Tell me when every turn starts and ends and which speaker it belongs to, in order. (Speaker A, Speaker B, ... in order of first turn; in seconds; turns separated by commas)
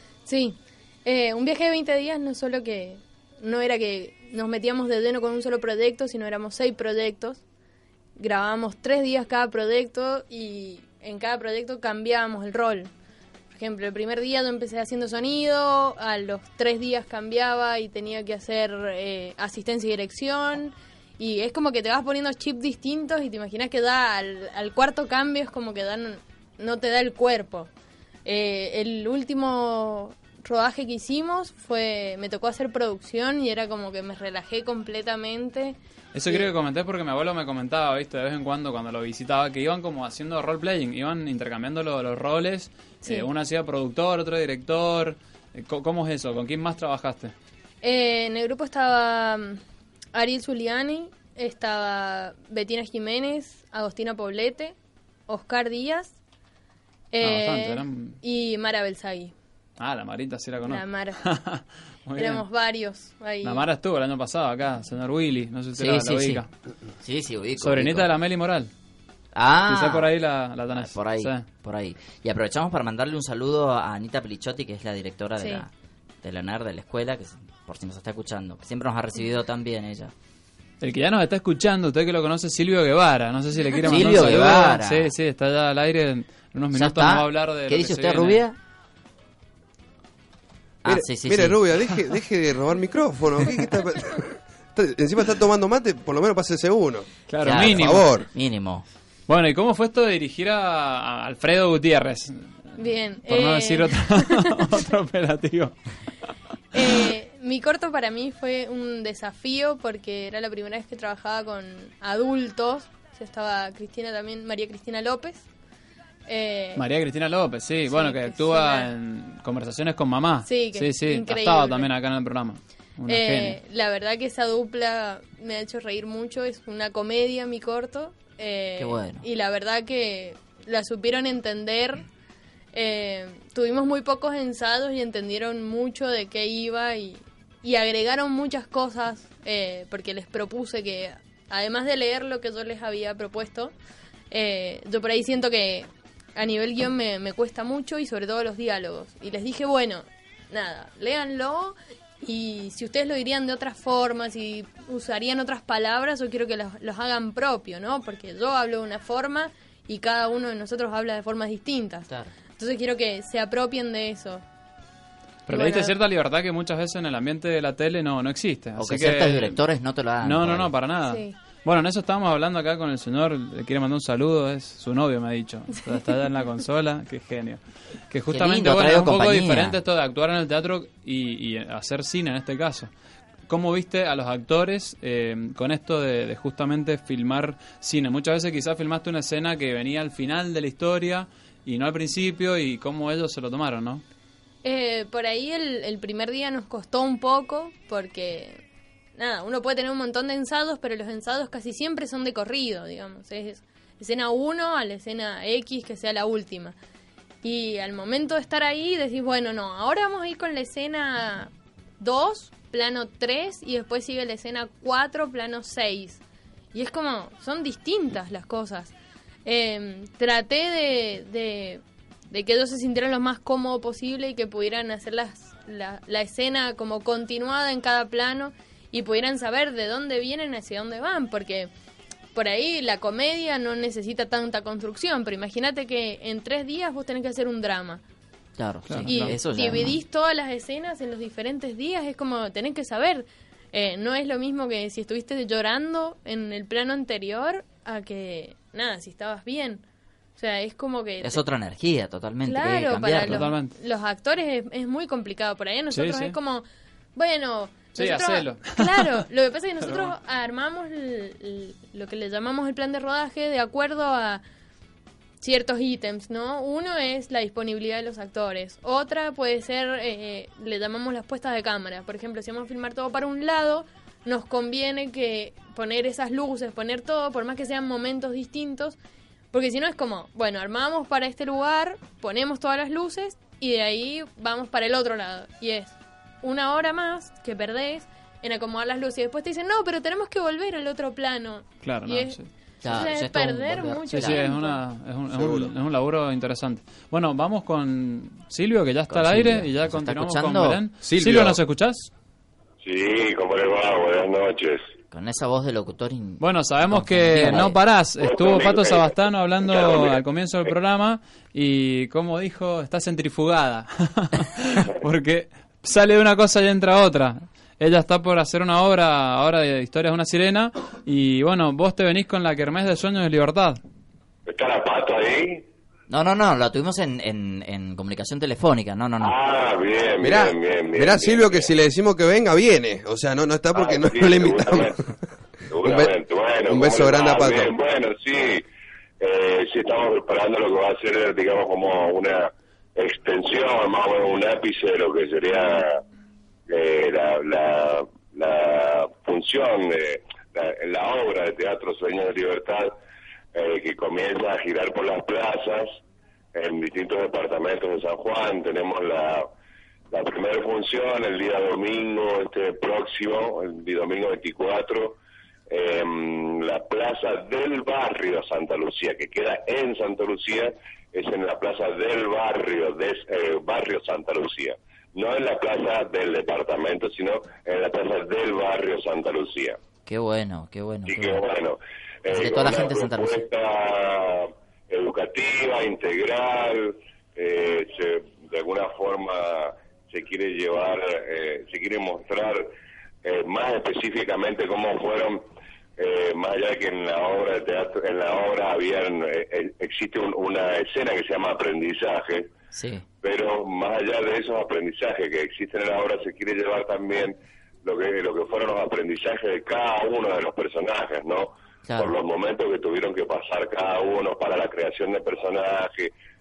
Speaker A: 0.3-7.4, Speaker A: 8.2-12.9, Speaker A: 13.5-27.7, Speaker A: 28.2-35.8, Speaker B: 36.1-47.3, Speaker A: 47.8-49.6, Speaker A: 50.1-54.8, Speaker A: 55.3-56.1, Speaker A: 57.1-59.3, Speaker B: 57.2-58.2, Speaker B: 59.8-62.5, Speaker A: 60.6-61.2, Speaker A: 62.2-63.6, Speaker B: 63.4-66.5, Speaker C: 65.8-66.4, Speaker C: 67.0-68.1, Speaker B: 67.6-68.7, Speaker C: 69.3-70.1, Speaker B: 69.7-71.5, Speaker C: 70.7-75.7, Speaker A: 75.4-75.6, Speaker C: 76.2-80.1, Speaker B: 80.8-88.4, Speaker C: 83.8-85.1, Speaker C: 86.7-88.6, Speaker C: 90.8-91.6, Speaker D: 90.9-98.3, Speaker B: 97.3-98.1, Speaker C: 97.4-98.8, Speaker B: 99.3-102.7, Speaker A: 102.8-104.7, Speaker B: 103.2-105.7, Speaker A: 106.7-115.5, Speaker A: 116.3-116.8, Speaker B: 116.8-123.6, Speaker A: 117.9-118.9, Speaker A: 120.5-121.9, Speaker A: 123.1-132.1, Speaker C: 128.8-129.2, Speaker A: 132.7-143.7, Speaker A: 144.3-164.4, Speaker B: 165.5-169.6, Speaker A: 165.5-165.9, Speaker C: 168.8-170.7, Speaker B: 170.2-182.9, Speaker A: 171.1-171.3, Speaker C: 178.3-179.8, Speaker B: 183.5-194.0, Speaker A: 194.6-198.6, Speaker A: 199.2-206.8, Speaker A: 207.4-216.2, Speaker A: 216.7-218.9, Speaker A: 219.4-231.7, Speaker A: 232.3-238.0, Speaker C: 238.6-240.0, Speaker B: 238.9-239.3, Speaker A: 239.1-249.8, Speaker A: 250.4-251.4, Speaker C: 251.2-253.5, Speaker A: 252.4-256.6, Speaker B: 253.3-253.7, Speaker B: 255.9-256.4, Speaker A: 257.1-264.4, Speaker B: 257.9-259.2, Speaker B: 259.9-260.1, Speaker A: 265.4-279.0, Speaker A: 279.5-294.8, Speaker B: 291.8-292.5, Speaker C: 292.8-294.4, Speaker B: 294.1-302.1, Speaker D: 295.3-295.7, Speaker C: 299.1-300.8, Speaker D: 301.0-301.6, Speaker E: 302.8-304.9, Speaker C: 305.1-307.8, Speaker B: 306.4-323.8, Speaker E: 308.2-310.7, Speaker E: 324.5-325.6, Speaker C: 326.1-329.4, Speaker E: 329.2-331.7, Speaker D: 330.2-335.0, Speaker E: 333.7-335.0, Speaker E: 335.7-338.6, Speaker D: 335.8-336.1, Speaker D: 336.7-337.7, Speaker E: 339.2-346.0, Speaker E: 346.7-352.9, Speaker E: 353.5-356.0, Speaker E: 356.5-359.5, Speaker E: 360.1-379.8, Speaker C: 380.1-381.4, Speaker E: 381.1-392.7, Speaker C: 382.3-383.5, Speaker E: 393.2-395.4, Speaker E: 396.0-402.5, Speaker C: 402.7-403.1, Speaker E: 403.2-416.1, Speaker C: 411.9-412.1